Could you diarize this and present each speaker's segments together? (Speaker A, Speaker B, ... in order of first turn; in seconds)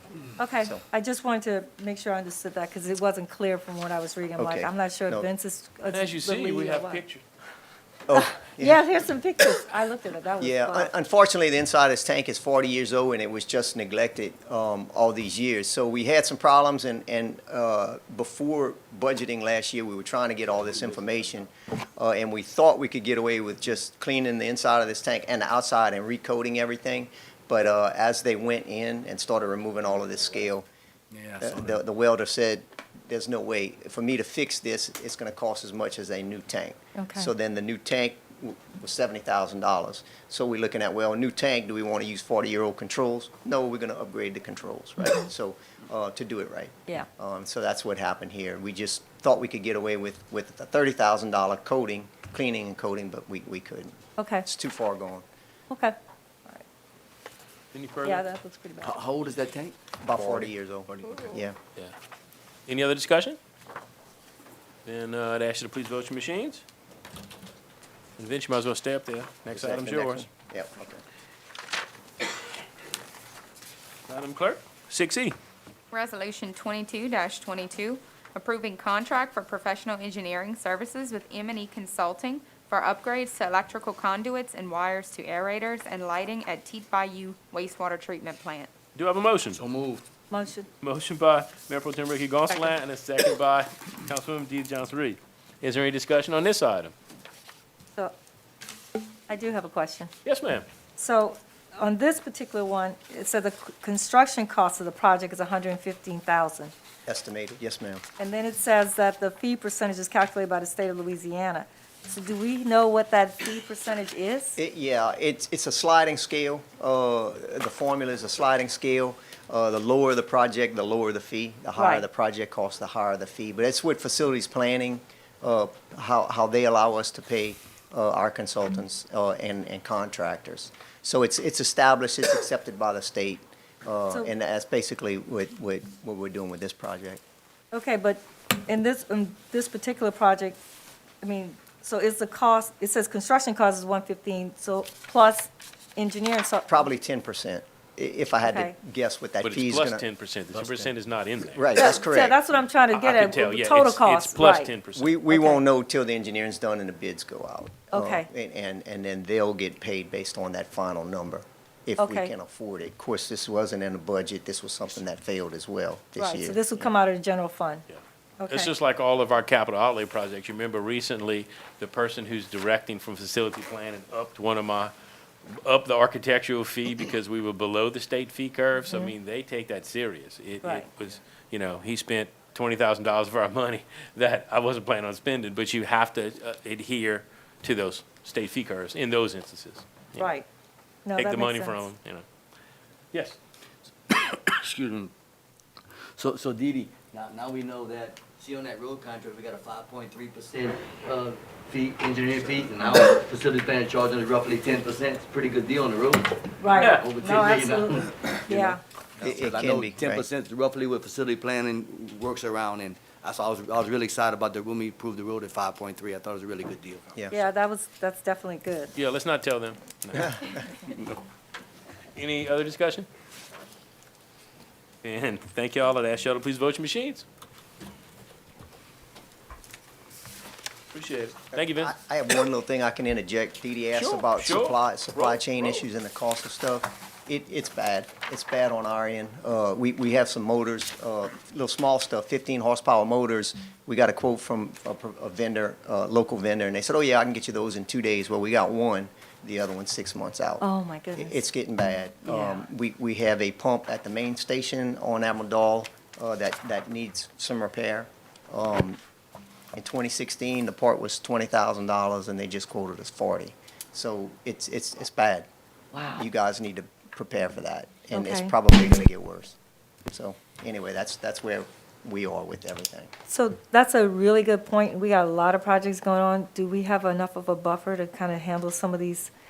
Speaker A: 0.4-7.0, 8.1-10.9, 37.0-37.3, 54.2-54.5, 55.7-56.6, 58.0-58.9, 90.3-90.7, 99.3-100.1, 101.0-106.7, 108.2-114.6, 121.8-122.0, 137.7-140.6, 141.2-146.9, 148.4-148.7, 151.8-154.7, 155.3-155.6, 157.9-158.3, 162.0-162.3, 166.2-167.8, 168.4-168.7, 180.6-180.9, 190.2-190.4, 191.0-191.9, 206.6-208.8, 217.3-218.9, 250.6-251.4, 252.3-252.7, 268.1-268.5, 273.3-279.3
Speaker B: 4.4-5.3, 8.1-8.8, 10.4-30.6, 31.4-55.2, 60.0-61.5, 69.5-71.0, 107.1-108.0, 114.5-137.2, 146.7-150.0, 151.5-152.4, 154.9-166.8, 209.2-210.2, 217.1-217.4, 220.2-220.6, 231.5-259.0, 259.7-265.5, 266.1-273.1
Speaker C: 5.9-7.2, 57.7-58.2, 62.7-63.4, 64.8-66.6, 68.2-70.3, 74.1-75.3, 89.0-89.6, 90.8-96.9, 100.2-100.7, 149.4-151.7, 152.9-155.2, 167.9-174.9, 175.5-190.3, 191.1-192.2, 206.8-207.2, 218.9-220.7, 222.1-223.1, 225.0-227.2, 230.9-231.9, 233.9-235.8
Speaker D: 31.1-31.8, 58.8-61.4, 89.6-90.0, 194.1-195.1, 196.1-217.1
Speaker E: 75.9-88.7